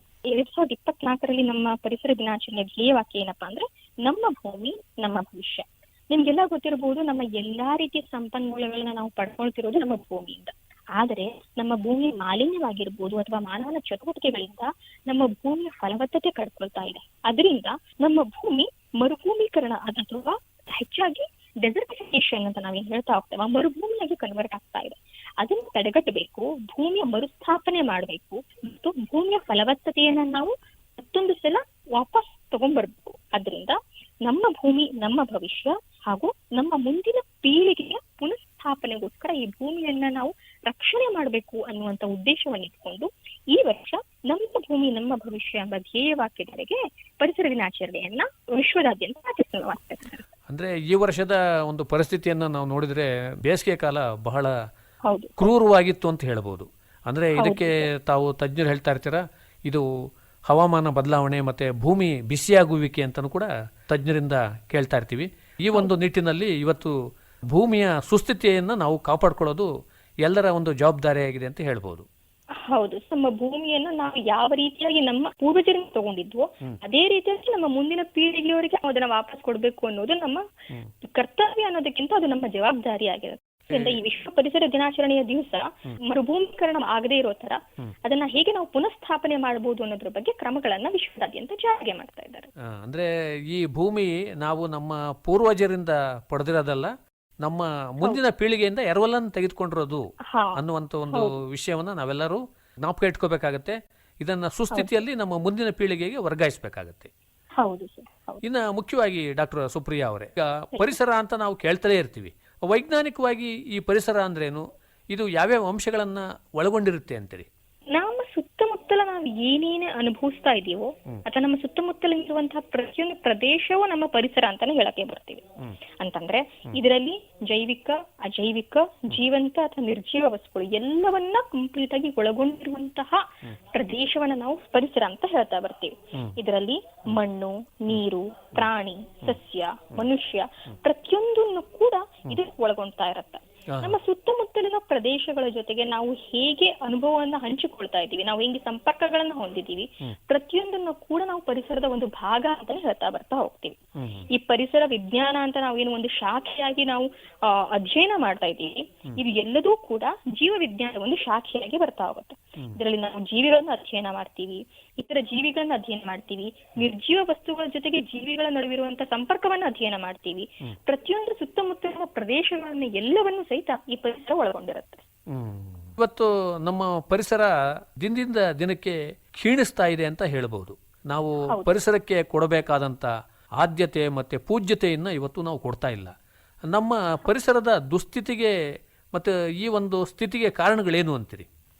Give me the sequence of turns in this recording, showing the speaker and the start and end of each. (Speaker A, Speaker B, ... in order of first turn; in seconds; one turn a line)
Speaker A: 0.3-50.2
Speaker B: 50.5-54.5
Speaker A: 55.0-55.5
Speaker B: 55.4-59.8
Speaker A: 57.4-57.8
Speaker B: 60.5-66.9
Speaker B: 67.5-69.7
Speaker B: 70.2-72.0
Speaker A: 72.6-80.4
Speaker A: 81.0-92.5
Speaker B: 92.7-107.1
Speaker A: 100.3-100.6
Speaker A: 107.6-108.4
Speaker B: 108.4-117.5
Speaker A: 117.9-125.4
Speaker A: 126.0-153.8
Speaker B: 154.0-154.2
Speaker A: 154.3-175.0
Speaker B: 175.3-186.1
Speaker B: 186.7-188.5
Speaker B: 189.1-191.5